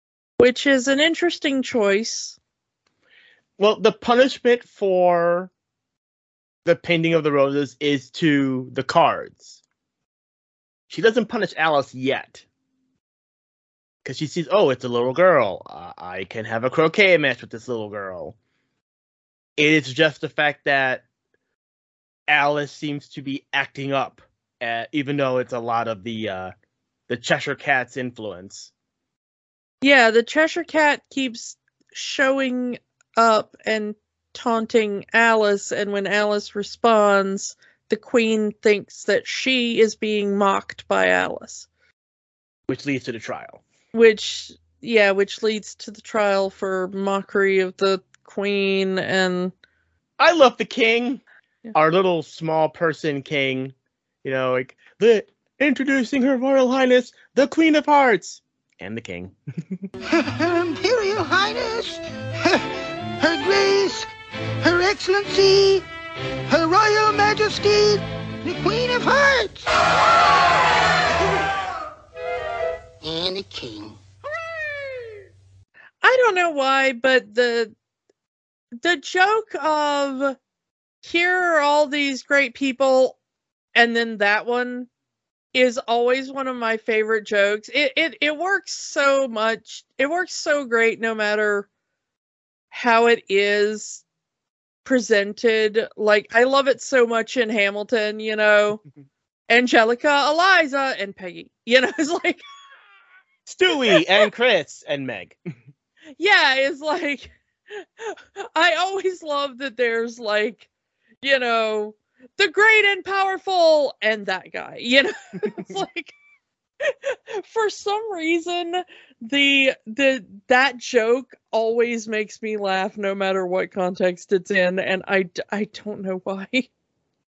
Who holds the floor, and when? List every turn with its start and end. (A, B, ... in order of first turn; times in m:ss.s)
0:00.4-0:02.4 A
0:03.6-0:05.5 B
0:06.6-0:09.6 B
0:10.9-0:12.4 B
0:14.0-0:18.3 B
0:19.6-0:21.0 B
0:22.3-0:26.5 B
0:27.1-0:28.7 B
0:29.8-0:41.7 A
0:42.7-0:43.6 B
0:43.9-0:49.5 A
0:50.2-0:51.2 B
0:51.7-0:59.3 B
1:00.1-1:02.6 C
1:03.2-1:04.1 C
1:04.6-1:05.8 C
1:06.5-1:09.6 C
1:11.1-1:11.5 C
1:13.0-1:14.0 C
1:16.0-1:17.7 A
1:18.8-1:20.4 A
1:21.0-1:23.2 A
1:23.7-1:24.9 A
1:25.5-1:31.7 A
1:32.7-1:34.0 A
1:34.8-1:38.8 A
1:39.5-1:42.4 A
1:43.4-1:45.4 B
1:46.2-1:50.7 A
1:51.2-1:56.1 A
1:56.8-2:06.7 A